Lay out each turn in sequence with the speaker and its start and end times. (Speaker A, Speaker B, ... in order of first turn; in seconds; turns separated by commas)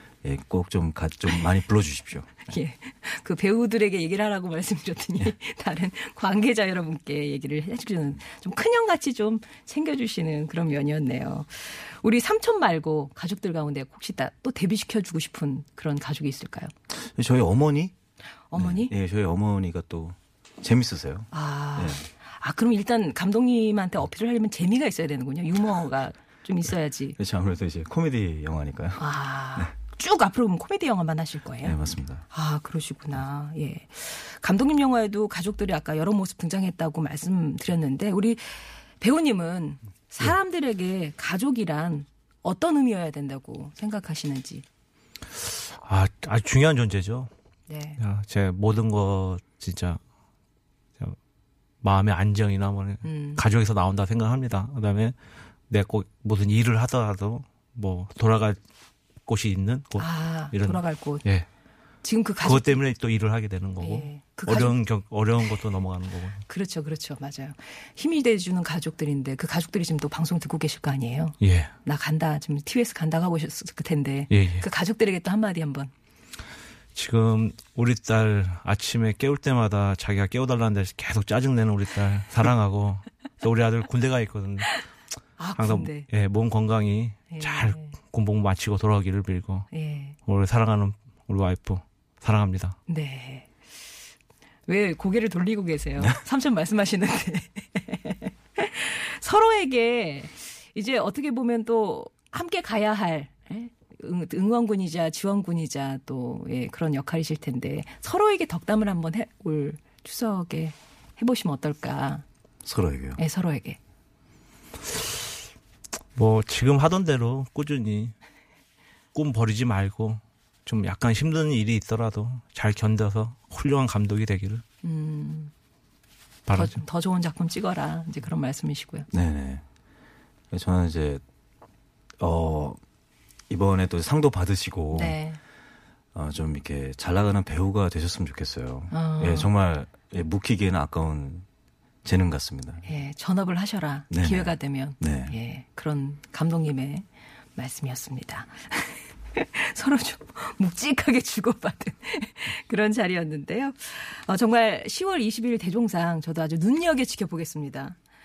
Speaker A: 0.2-2.5, Speaker B: 2.5-16.7, Speaker A: 16.9-17.9, Speaker B: 18.5-18.9, Speaker A: 18.6-22.1, Speaker B: 21.3-27.2, Speaker A: 27.2-29.7, Speaker B: 29.0-31.8, Speaker A: 31.6-32.2, Speaker B: 32.3-44.6, Speaker C: 45.7-47.3, Speaker B: 47.7-48.0, Speaker C: 48.0-50.0, Speaker C: 51.8-55.1, Speaker B: 53.0-53.4, Speaker C: 55.7-58.6, Speaker C: 59.2-61.5, Speaker B: 60.0-61.2, Speaker B: 62.0-62.8, Speaker C: 62.4-66.4, Speaker B: 63.8-64.8, Speaker B: 66.5-75.9, Speaker C: 71.4-71.7, Speaker C: 74.3-74.6, Speaker C: 77.0-84.8, Speaker B: 85.4-86.1, Speaker C: 85.6-89.7, Speaker B: 87.3-87.9, Speaker B: 89.7-90.2, Speaker C: 90.3-92.8, Speaker B: 92.9-93.5, Speaker B: 94.7-112.2, Speaker A: 112.6-113.2, Speaker B: 113.2-113.8, Speaker C: 116.1-118.1, Speaker C: 119.1-124.6, Speaker B: 124.8-125.5, Speaker C: 126.5-126.8, Speaker B: 126.5-129.1, Speaker A: 129.1-129.6, Speaker A: 130.5-131.2, Speaker A: 132.2-132.8, Speaker A: 133.5-135.2, Speaker B: 134.9-135.4, Speaker A: 136.1-141.5, Speaker B: 138.9-139.5, Speaker A: 142.0-142.8, Speaker B: 142.8-158.0, Speaker A: 144.1-145.3